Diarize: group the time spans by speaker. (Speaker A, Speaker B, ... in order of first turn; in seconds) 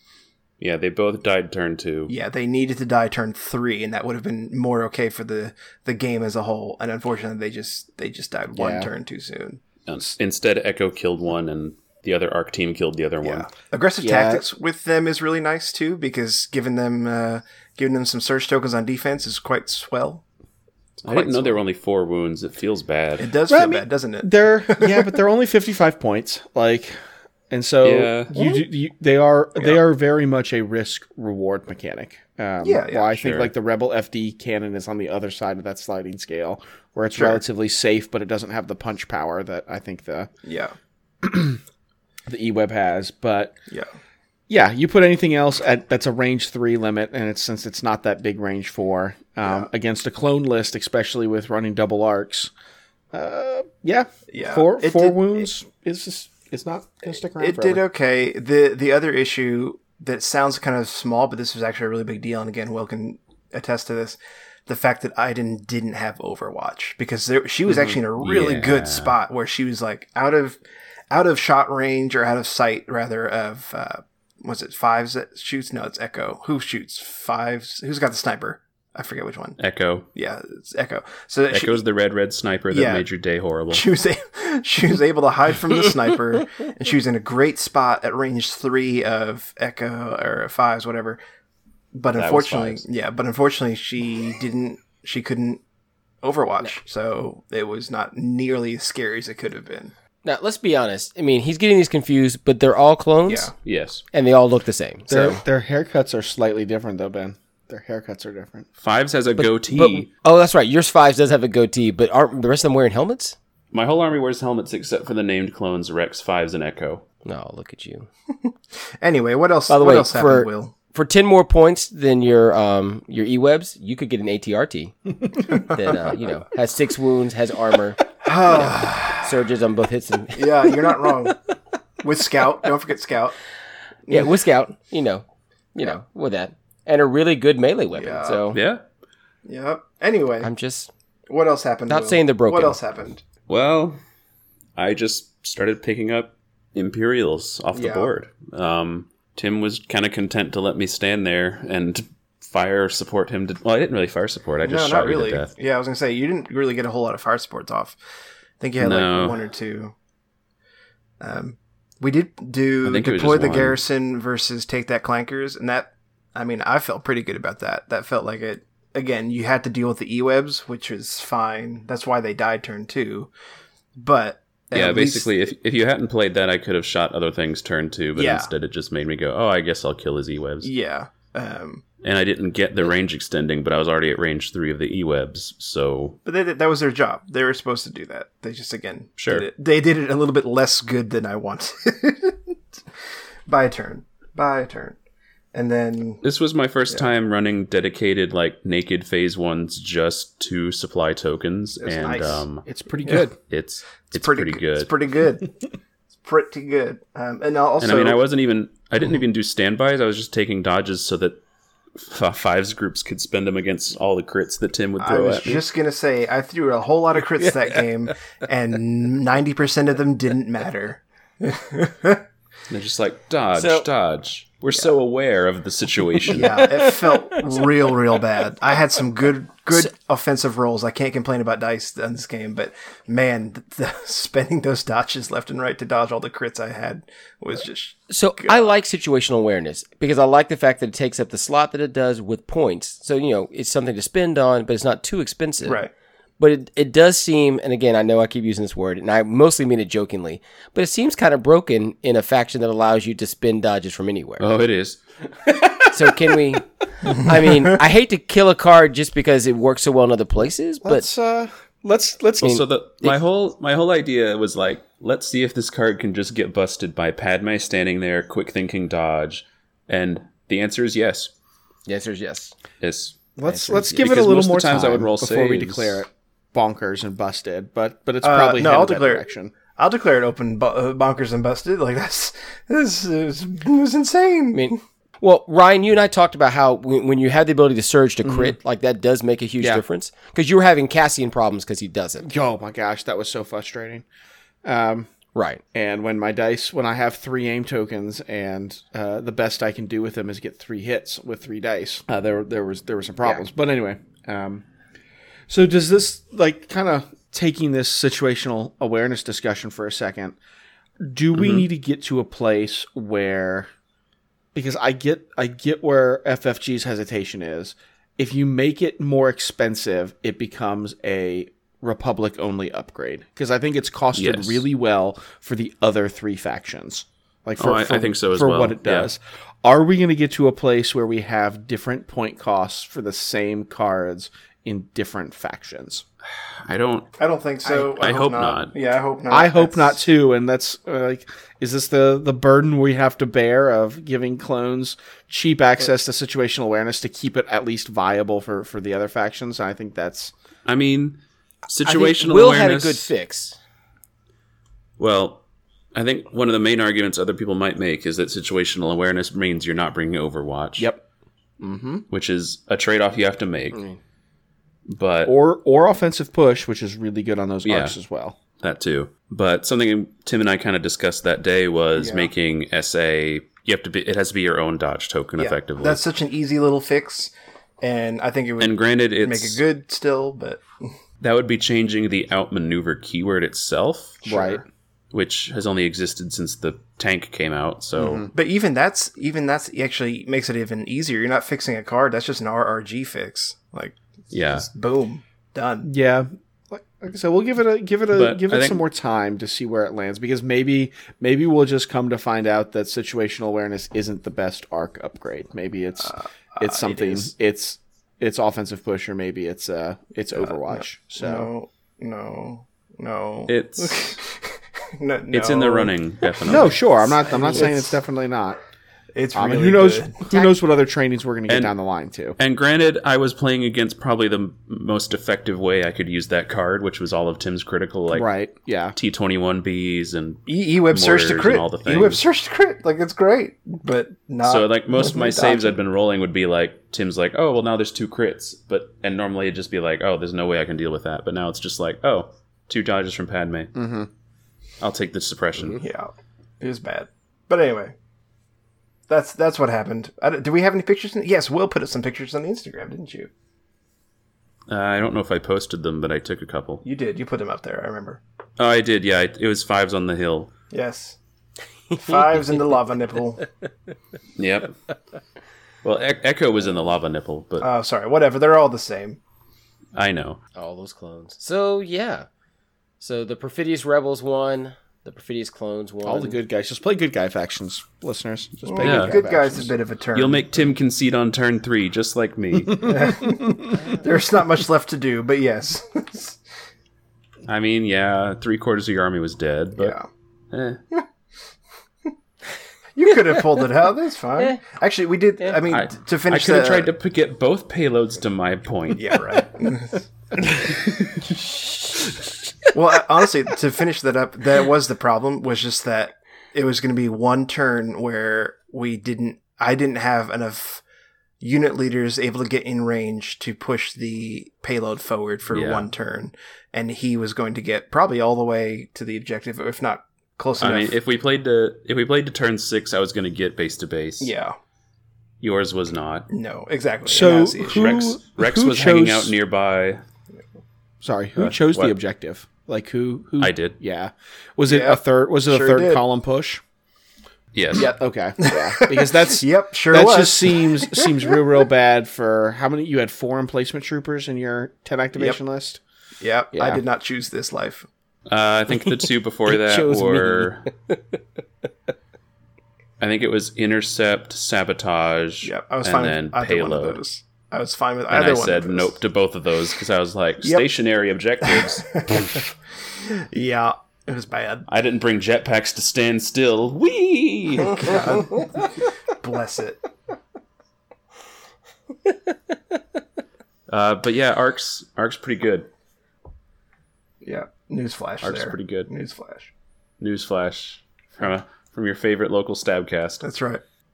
Speaker A: 0.6-2.1, 9.8-13.5, 21.0-23.3, 27.8-28.3, 33.2-33.5, 68.2-69.1, 79.6-80.0, 81.5-83.8, 92.1-92.8, 103.6-104.0, 108.8-110.1, 113.7-117.0, 138.5-138.8, 143.5-144.0, 144.8-155.5, 158.8-159.4, 162.8-163.8, 174.7-180.7, 182.0-186.2, 189.2-189.5, 196.2-202.6, 203.2-204.9, 207.8-211.4, 211.9-215.7, 222.7-226.8, 254.4-255.0, 262.4-271.3, 272.8-273.2, 273.8-276.0, 311.4-311.6, 324.1-324.6, 327.6-329.1, 336.6-337.1, 337.8-338.7, 350.6-353.1, 355.0-355.4, 355.9-360.9, 362.1-363.8, 364.9-365.3, 367.6-368.0, 368.6-376.0, 378.6-379.6, 381.2-384.6, 385.1-388.3, 394.3-394.7, 398.1-398.8, 413.5-414.1, 415.3-416.8, 421.5-421.7, 422.4-428.3, 428.9-432.2, 434.4-443.7, 444.8-445.8, 454.7-456.8, 458.6-460.5, 464.4-464.7, 465.8-467.7, 469.9-470.4, 478.8-479.2, 480.1-483.1, 487.4-489.9, 490.5-490.8, 495.7-499.2, 500.7-501.0, 515.5-515.9, 520.6-524.3, 525.4-526.3, 527.6-530.0, 531.4-531.9, 533.4-533.8, 537.5-537.9, 548.3-550.7, 553.0-557.0, 558.1-562.4, 564.7-568.1, 573.7-575.7, 578.2-578.9, 580.0-583.2
Speaker B: 2.1-9.6, 13.2-20.2, 21.0-21.6, 23.2-25.1, 28.3-28.6, 32.6-33.2, 37.1-37.4, 40.4-40.7, 54.3-55.5, 57.4-70.6, 71.1-79.6, 80.1-81.8, 82.7-83.0, 83.7-91.2, 91.9-95.6, 96.2-99.9, 103.2-103.5, 118.4-120.7, 125.5-126.1, 128.2-129.3, 130.3-131.4, 132.0-133.3, 137.9-138.5, 139.4-140.5, 141.3-143.2, 147.7-148.1, 154.6-158.0, 158.6-159.9, 161.2-173.3, 174.0-175.3, 178.2-178.5, 180.6-181.8, 186.2-192.5, 193.5-195.0, 195.5-196.2, 201.8-202.4, 204.1-205.5, 206.2-208.2, 215.0-222.2, 226.3-238.7, 245.6-245.9, 278.2-284.8, 337.2-340.0, 372.0-372.3, 375.4-380.6, 388.3-395.9, 406.0-407.3, 410.4-415.9, 419.1-420.2, 430.5-435.8, 445.8-447.9, 449.1-453.3, 456.8-458.2, 460.7-461.2, 461.9-463.4, 467.6-469.2, 478.6-480.4, 482.8-486.4, 489.8-490.1, 492.9-496.9, 498.9-500.6, 502.7-510.8, 511.4-521.0, 524.2-524.5, 526.3-528.0, 534.7-536.0, 538.4-541.3, 546.2-547.9, 555.4-558.9, 561.4-562.5, 563.1-564.6, 567.6-569.8, 577.2-579.5, 583.2-583.6
Speaker C: 8.5-8.9, 14.0-14.4, 23.5-26.9, 27.5-40.3, 41.2-41.6, 42.3-43.5, 44.5-52.5, 53.1-57.8, 105.1-108.7, 202.6-203.3, 260.8-262.6, 273.4-279.5, 288.2-288.6, 292.2-294.0, 294.6-295.1, 295.7-304.6, 305.5-310.4, 311.0-313.7, 314.5-336.0, 339.3-350.3, 360.8-361.0, 361.6-362.1, 365.2-368.4, 384.2-384.6, 388.0-388.3, 395.8-411.5, 416.4-418.6, 419.3-422.4, 428.1-428.9, 443.7-444.1, 476.0-479.7, 527.0-529.3, 531.0-536.6, 537.7-545.8, 546.5-546.8
Speaker D: 100.2-103.5, 104.1-105.4, 109.4-113.3, 117.2-118.1, 119.7-124.9, 125.5-131.1, 134.1-135.2, 135.7-138.6, 140.4-140.9, 141.9-142.8, 223.5-223.9, 238.1-245.8, 246.4-254.4, 255.8-261.1, 262.4-263.2, 271.9-272.5, 273.4-274.0, 284.5-292.2, 295.3-295.6, 351.8-353.6, 470.6-472.2, 473.0-476.4, 549.5-551.0